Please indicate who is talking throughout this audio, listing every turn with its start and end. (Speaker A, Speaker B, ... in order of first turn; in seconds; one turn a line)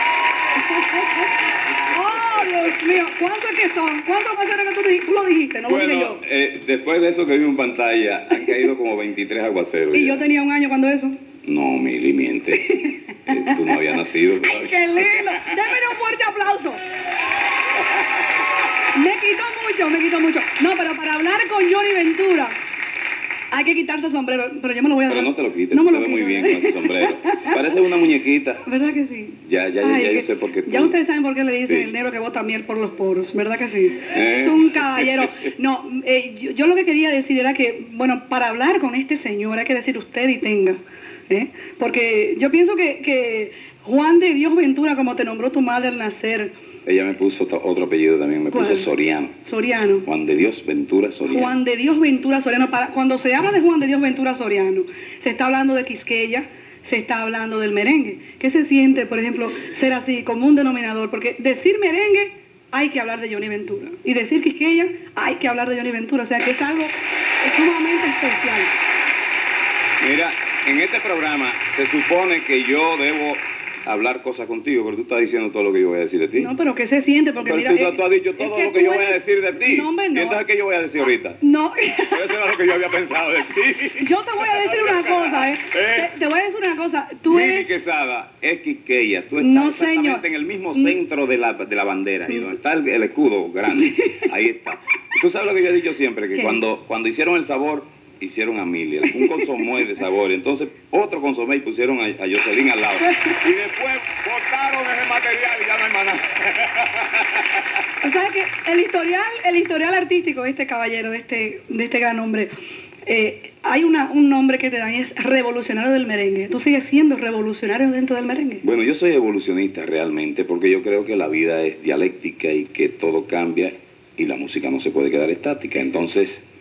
Speaker A: 0.6-1.3
Speaker A: 1.9-6.2
Speaker B: 5.7-10.2
Speaker A: 9.9-11.2
Speaker B: 11.5-15.6
Speaker A: 12.6-16.8
Speaker A: 18.9-22.6
Speaker A: 23.5-27.7
Speaker B: 25.1-28.6
Speaker A: 28.6-46.5
Speaker B: 29.5-31.0
Speaker B: 34.1-35.3
Speaker B: 46.9-49.4
Speaker A: 48.5-48.9
Speaker A: 49.4-50.1
Speaker B: 50.0-51.6
Speaker A: 51.3-68.7
Speaker B: 70.0-76.5
Speaker A: 76.4-80.4
Speaker B: 77.4-81.4
Speaker A: 81.4-82.2
Speaker B: 82.1-86.1
Speaker A: 84.0-87.8
Speaker B: 87.3-107.7
Speaker A: 89.4-91.0
Speaker A: 96.3-96.6
Speaker A: 99.1-99.4
Speaker A: 103.0-103.4
Speaker A: 108.0-112.5
Speaker A: 113.1-118.6
Speaker B: 118.6-126.4